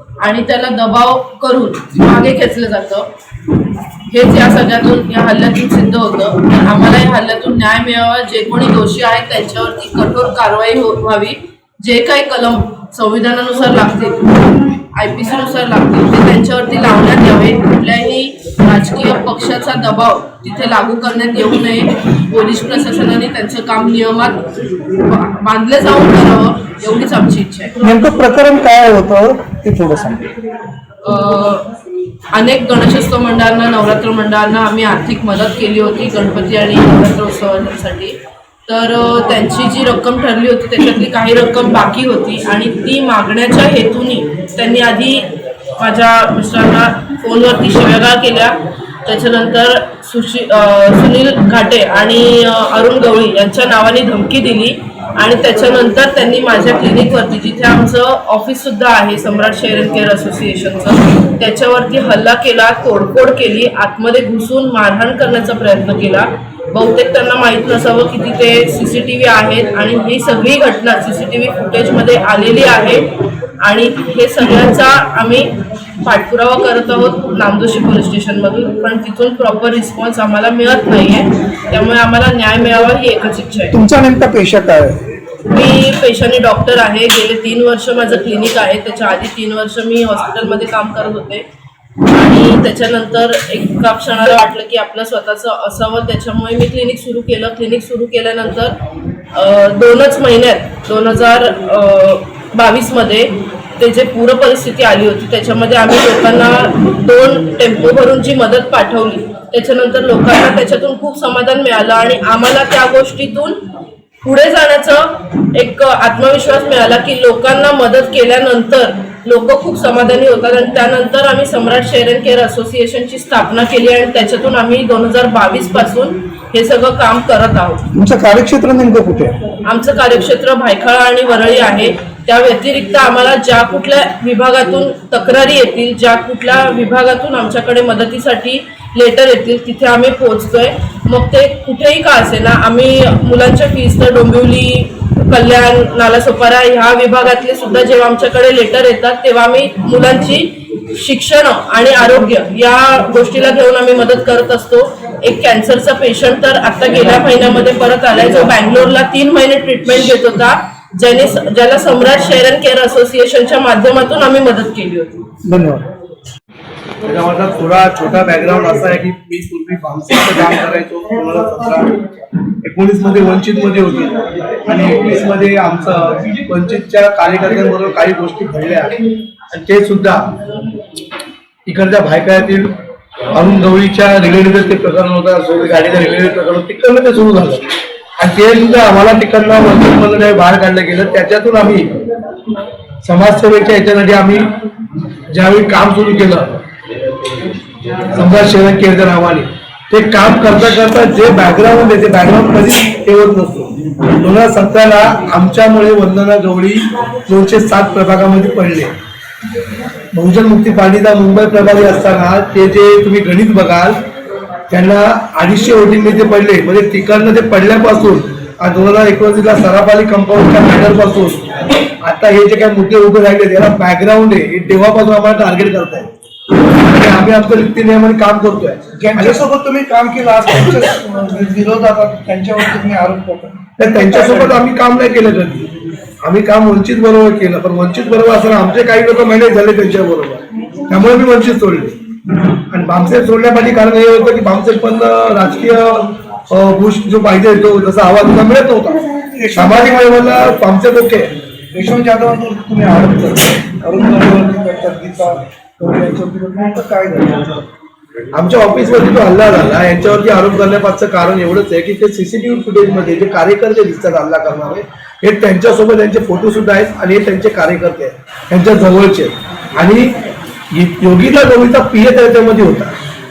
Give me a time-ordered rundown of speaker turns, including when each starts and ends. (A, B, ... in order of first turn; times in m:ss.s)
0:00.2-0:03.1 A
0:04.1-0:14.3 A
0:14.9-0:24.4 A
0:25.0-0:27.8 A
0:27.8-0:30.2 B
0:31.0-0:31.6 A
0:32.3-0:38.2 A
0:38.7-0:45.3 A
0:45.8-1:13.0 A
1:13.6-1:23.8 A
1:23.7-1:25.0 B
1:25.5-1:31.4 A
1:32.1-1:38.7 A
1:39.3-1:53.6 A
1:54.2-2:07.8 A
2:07.9-2:09.3 B
2:09.6-2:45.2 A
2:47.0-2:52.0 C
2:52.6-2:58.9 C
2:59.5-3:00.3 C
3:01.7-3:02.7 C
3:03.3-3:07.6 C
3:08.2-3:11.9 C
3:13.0-3:14.5 C
3:15.3-3:16.6 C
3:18.1-3:28.9 C
3:30.1-3:34.0 C
3:34.7-3:46.1 C
3:46.9-3:49.4 C
3:49.0-3:54.6 B
3:53.8-3:55.7 C
3:56.2-4:01.9 C
4:02.7-4:09.0 C
4:09.3-4:10.1 B
4:09.5-4:11.3 C
4:11.7-4:17.6 B
4:18.3-4:30.2 C
4:30.7-4:32.9 C